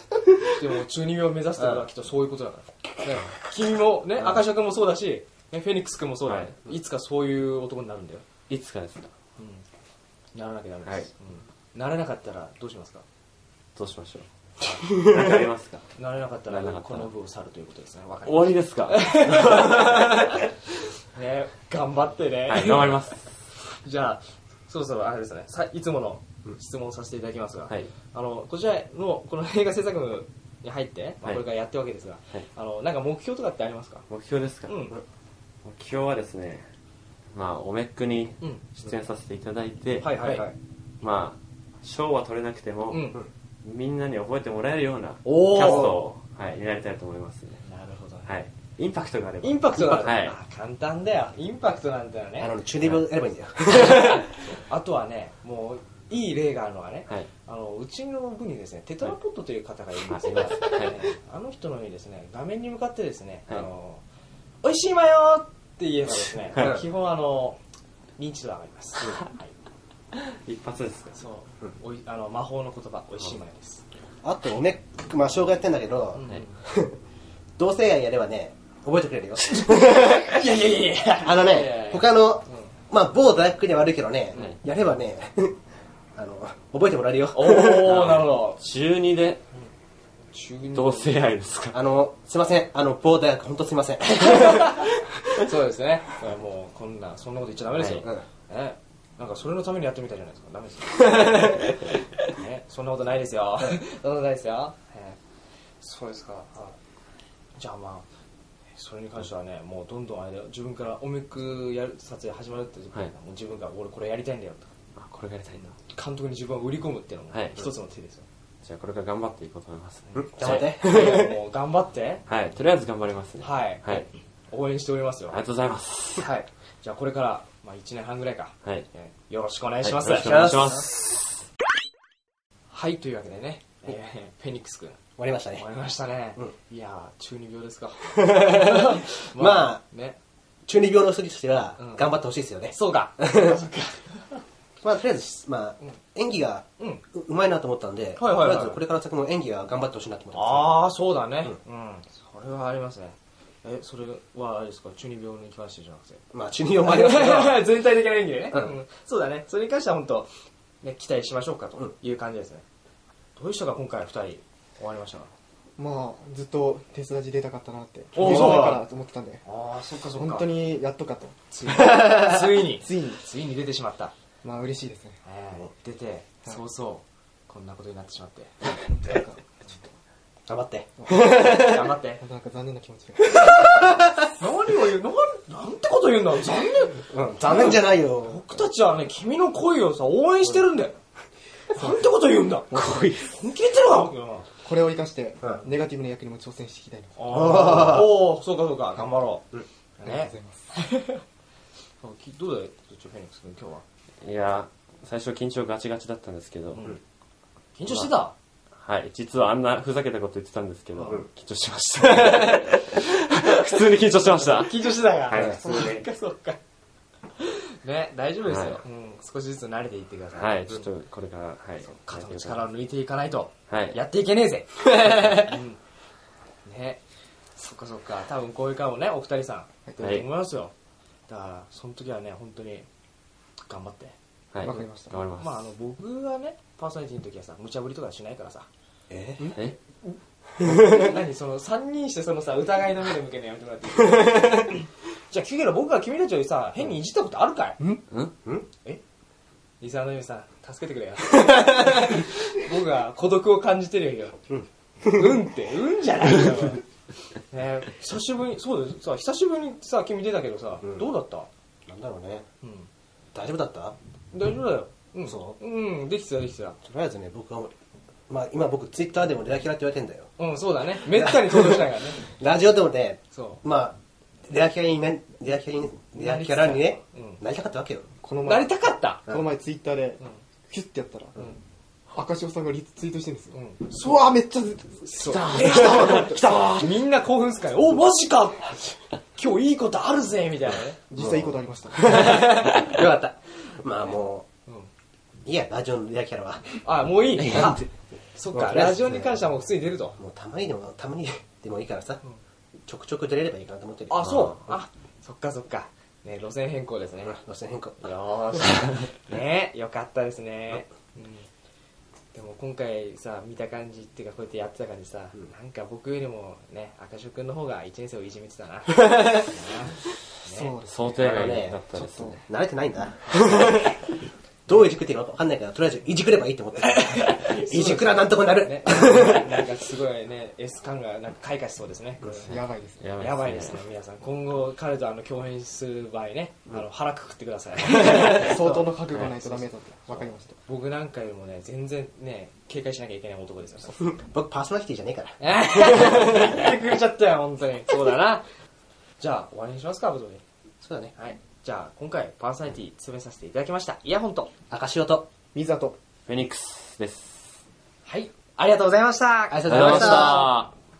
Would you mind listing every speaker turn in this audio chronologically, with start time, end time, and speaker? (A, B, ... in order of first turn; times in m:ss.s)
0:00.4-0:08.2 A
0:01.6-0:01.9 B
0:06.2-0:06.5 C
0:08.5-0:09.1 C
0:09.4-0:09.7 A
0:10.3-0:13.0 A
0:13.8-0:15.9 C
0:16.0-0:20.5 A
0:16.5-0:17.1 C
0:18.2-0:19.6 C
0:19.4-0:20.0 B
0:21.1-0:23.0 A
0:22.5-0:23.4 C
0:23.7-0:34.1 A
0:34.1-0:34.9 C
0:34.7-0:35.0 A
0:35.6-0:36.7 C
0:37.3-0:40.4 C
0:40.0-0:40.5 A
0:41.0-0:47.6 C
0:42.9-0:43.2 A
0:45.2-0:46.0 B
0:45.5-0:45.9 A
0:47.6-0:48.3 A
0:48.2-0:50.4 C
0:49.4-0:52.5 A
0:52.4-0:54.4 B
0:53.7-1:04.0 A
1:00.1-1:01.0 C
1:04.6-1:07.6 A
1:06.6-1:06.8 B
1:08.2-1:09.5 A
1:10.1-1:11.2 C
1:11.1-1:13.8 A
1:14.2-1:17.0 B
1:16.2-1:16.6 A
1:17.6-1:20.3 B
1:19.5-1:22.7 A
1:21.2-1:25.6 B
1:26.2-1:28.2 B
1:27.3-1:28.6 A
1:27.8-1:29.4 C
1:30.3-1:31.2 A
1:30.7-1:31.8 C
1:31.7-1:35.0 B
1:34.1-1:45.2 A
1:37.7-1:38.0 C
1:45.8-1:46.8 A
1:47.6-1:48.1 A
1:48.8-1:54.7 A
1:55.0-1:55.8 C
1:55.9-1:58.2 A
1:57.3-1:57.6 C
1:58.6-2:00.8 C
2:00.1-2:02.2 A
2:00.1-2:01.4 B
2:02.3-2:04.1 C
2:03.4-2:05.4 A
2:05.3-2:06.3 C
2:06.2-2:10.4 A
2:09.8-2:11.4 C
2:10.2-2:10.9 B
2:12.7-2:15.0 A
2:15.2-2:15.6 B
2:15.6-2:20.2 A
2:18.2-2:19.8 B
2:20.7-2:23.6 B
2:21.8-2:22.1 A
2:22.7-2:24.4 A
2:24.8-2:30.9 B
2:28.2-2:28.8 A
2:30.3-2:36.2 A
2:36.3-2:37.7 B
2:36.8-2:40.3 A
2:40.8-2:42.6 A
2:43.4-2:45.3 A
2:45.8-2:49.4 D
2:48.2-2:48.8 A
2:48.2-2:48.6 B
2:49.4-2:50.5 A
2:50.2-2:53.2 D
2:51.5-2:54.2 A
2:51.7-2:52.3 B
2:54.4-2:55.2 D
2:55.2-2:58.7 A
2:58.8-2:59.4 D
3:00.5-3:01.9 B
3:01.0-3:01.4 D
3:01.1-3:02.2 A
3:02.2-3:04.2 D
3:03.4-3:04.1 B
3:04.4-3:11.0 A
3:07.1-3:08.4 B
3:11.7-3:14.5 A
3:11.7-3:12.0 D
3:12.7-3:13.2 D
3:12.7-3:13.3 C
3:14.6-3:17.6 D
3:17.2-3:19.5 A
3:17.3-3:18.2 B
3:20.0-3:21.2 A
3:20.0-3:20.7 D
3:22.0-3:23.8 A
3:24.2-3:27.0 C
3:26.7-3:27.0 A
3:27.8-3:28.3 A
3:27.9-3:28.1 C
3:28.8-3:36.1 C
3:31.0-3:31.2 A
3:34.1-3:36.6 A
3:35.3-3:35.6 B
3:37.4-3:40.9 A
3:38.5-3:38.8 C
3:40.4-3:42.7 C
3:41.8-3:45.8 A
3:43.7-3:44.0 C
3:46.6-3:47.0 A
3:47.6-3:50.7 A
3:50.0-3:50.3 C
3:51.3-3:52.9 A
3:53.7-3:54.2 A
3:54.5-3:55.7 C
3:54.6-3:55.2 D
3:54.7-3:58.7 A
3:59.1-3:59.6 B
4:00.1-4:07.8 A
4:09.8-4:14.4 A
4:14.5-4:15.3 B
4:15.0-4:16.8 A
4:17.5-4:21.5 A
4:21.9-4:22.4 B
4:22.6-4:22.9 A
4:23.3-4:24.0 B
4:24.3-4:26.8 A
4:25.3-4:25.6 B
4:26.8-4:27.7 B
4:28.3-4:30.3 B
4:30.4-4:32.2 A
4:31.0-4:34.0 B
4:33.3-4:33.6 A
4:34.5-4:38.1 B
4:36.2-4:37.4 A
4:38.2-4:38.7 D
4:38.4-4:39.3 A
4:39.3-4:41.4 D
4:42.1-4:46.9 D
4:43.5-4:44.0 A
4:45.1-4:51.0 A
4:45.3-4:46.3 C
4:51.1-4:52.5 D
4:51.1-4:54.5 B
4:55.4-4:56.9 B
4:56.8-5:00.2 A
4:57.4-4:57.8 B
4:58.5-4:59.3 B
5:00.2-5:02.2 B
5:02.9-5:04.7 B
5:04.1-5:07.4 A
5:07.3-5:08.6 B
5:08.0-5:11.5 A
5:12.3-5:20.7 A
5:20.5-5:21.4 D
5:20.8-5:22.4 C
5:21.2-5:21.8 B
5:22.0-5:22.4 D
5:22.4-5:24.1 B
5:23.3-5:23.8 A
5:24.7-5:29.6 B
5:26.8-5:32.5 A
5:32.4-5:33.0 D
5:32.5-5:33.8 C
5:33.2-5:44.1 A
5:37.9-5:40.6 D
5:39.1-5:39.4 C
5:44.0-5:46.7 B
5:45.4-5:48.5 A
5:49.2-5:50.4 A
5:50.8-5:51.1 B
5:51.2-5:54.5 A
5:54.7-5:55.3 B
5:55.5-5:56.0 D
5:56.3-5:57.6 C
5:58.0-6:00.5 A
5:59.5-6:00.5 B
5:59.6-6:00.7 C